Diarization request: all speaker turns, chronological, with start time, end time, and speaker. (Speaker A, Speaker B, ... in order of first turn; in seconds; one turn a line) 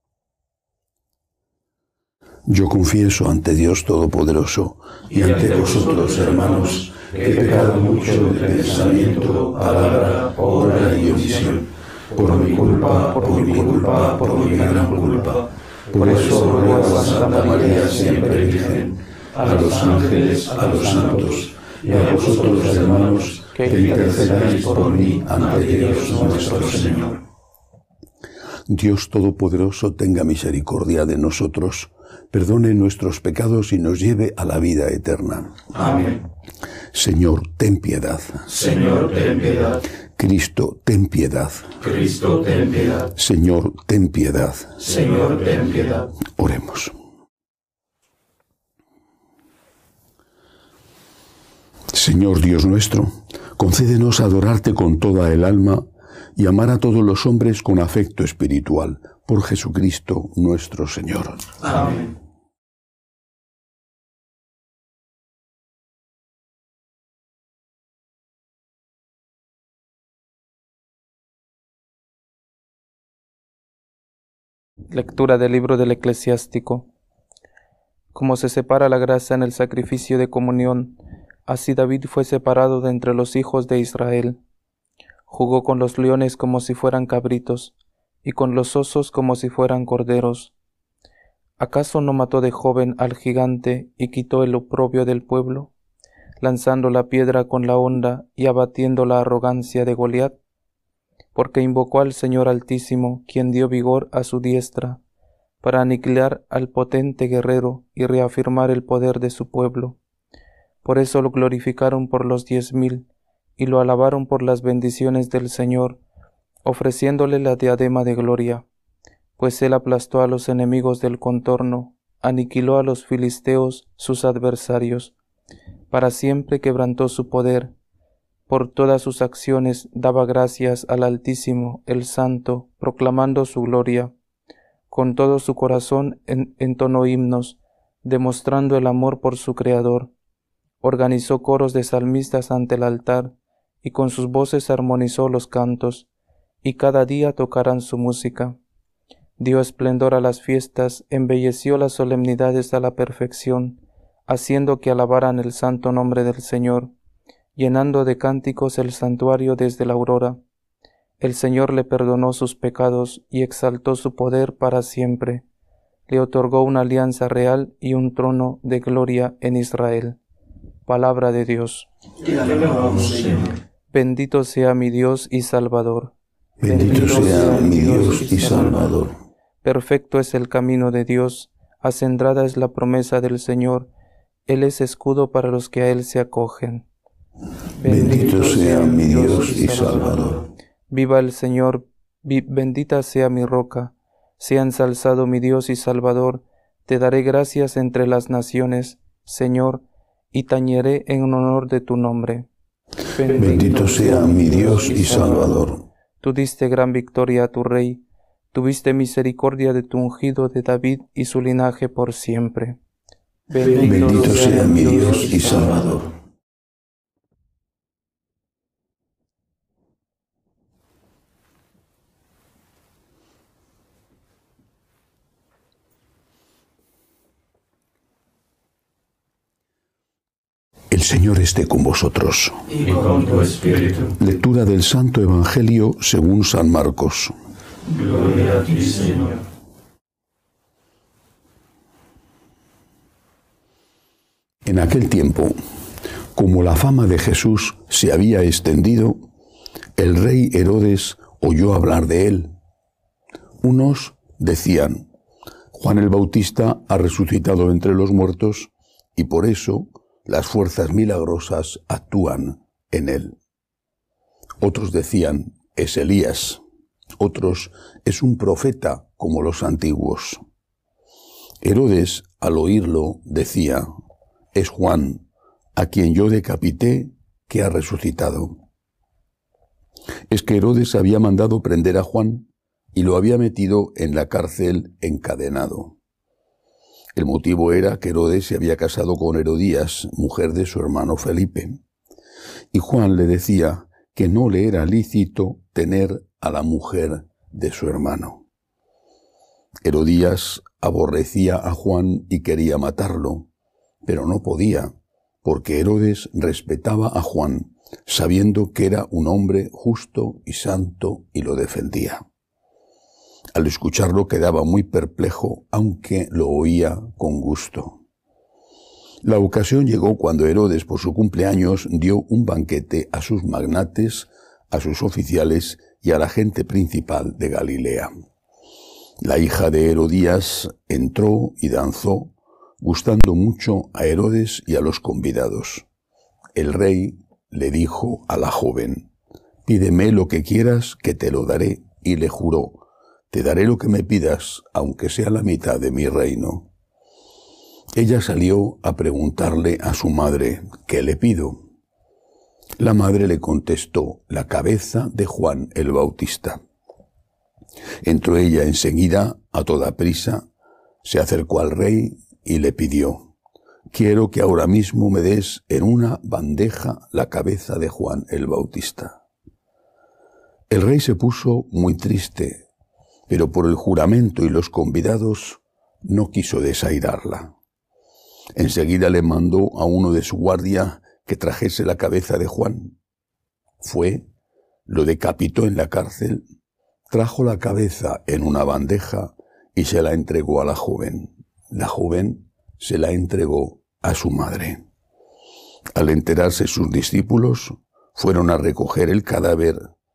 Speaker A: 2.5-27.2
Speaker B: 13.3-14.1
Speaker B: 16.0-18.3
Speaker B: 23.6-24.8
Speaker A: 28.7-35.9
Speaker A: 36.9-38.8
Speaker C: 38.8-39.7
Speaker A: 40.2-42.0
Speaker C: 42.2-42.9
Speaker A: 43.1-45.3
Speaker C: 45.1-45.9
Speaker A: 46.0-46.9
Speaker A: 51.9-61.9
Speaker B: 74.9-76.9
Speaker B: 78.1-84.4
Speaker B: 85.3-90.5
Speaker B: 91.6-95.7
Speaker B: 96.4-100.4
Speaker B: 101.3-105.0
Speaker B: 105.6-110.0
Speaker B: 110.8-113.1
Speaker B: 113.6-116.0
Speaker B: 116.7-118.7
Speaker B: 119.4-125.1
Speaker B: 125.9-127.7
Speaker B: 128.5-134.1
Speaker B: 134.9-140.1
Speaker B: 140.8-146.1
Speaker B: 146.6-148.6
Speaker B: 149.4-156.9
Speaker B: 157.6-160.4
Speaker B: 161.2-165.4
Speaker B: 166.1-170.2
Speaker B: 170.9-171.9
Speaker C: 172.4-173.4
Speaker B: 173.9-179.0
Speaker A: 176.6-179.1
Speaker B: 179.6-183.9
Speaker B: 184.5-186.9
Speaker B: 187.8-202.5
Speaker A: 187.8-190.4
Speaker B: 203.1-205.6
Speaker A: 203.3-205.8
Speaker B: 206.2-212.8
Speaker B: 213.5-215.8
Speaker A: 213.8-216.1
Speaker A: 230.9-232.9
Speaker C: 232.9-233.9
Speaker A: 234.0-237.3
Speaker C: 238.0-239.4
Speaker A: 244.6-245.6
Speaker A: 246.3-249.2
Speaker A: 250.0-252.5
Speaker A: 253.6-255.1
Speaker A: 255.7-263.4
Speaker A: 264.6-266.6
Speaker A: 267.2-270.4
Speaker A: 271.6-273.9
Speaker A: 274.5-275.2
Speaker A: 275.8-278.6
Speaker A: 280.3-286.0
Speaker A: 287.1-291.8
Speaker A: 292.7-298.4
Speaker A: 299.8-303.5
Speaker A: 304.1-304.9
Speaker A: 305.4-312.2
Speaker A: 313.5-318.0
Speaker A: 319.2-328.1
Speaker A: 329.2-335.9
Speaker A: 336.6-339.1
Speaker A: 339.7-346.7
Speaker A: 347.9-351.6
Speaker A: 352.8-356.6
Speaker A: 358.0-360.4
Speaker A: 361.0-363.3
Speaker A: 363.9-369.2
Speaker A: 370.7-372.6
Speaker A: 373.3-377.5
Speaker A: 378.6-383.0
Speaker A: 383.8-384.3
Speaker A: 384.9-386.4
Speaker A: 387.1-394.8
Speaker A: 395.9-399.8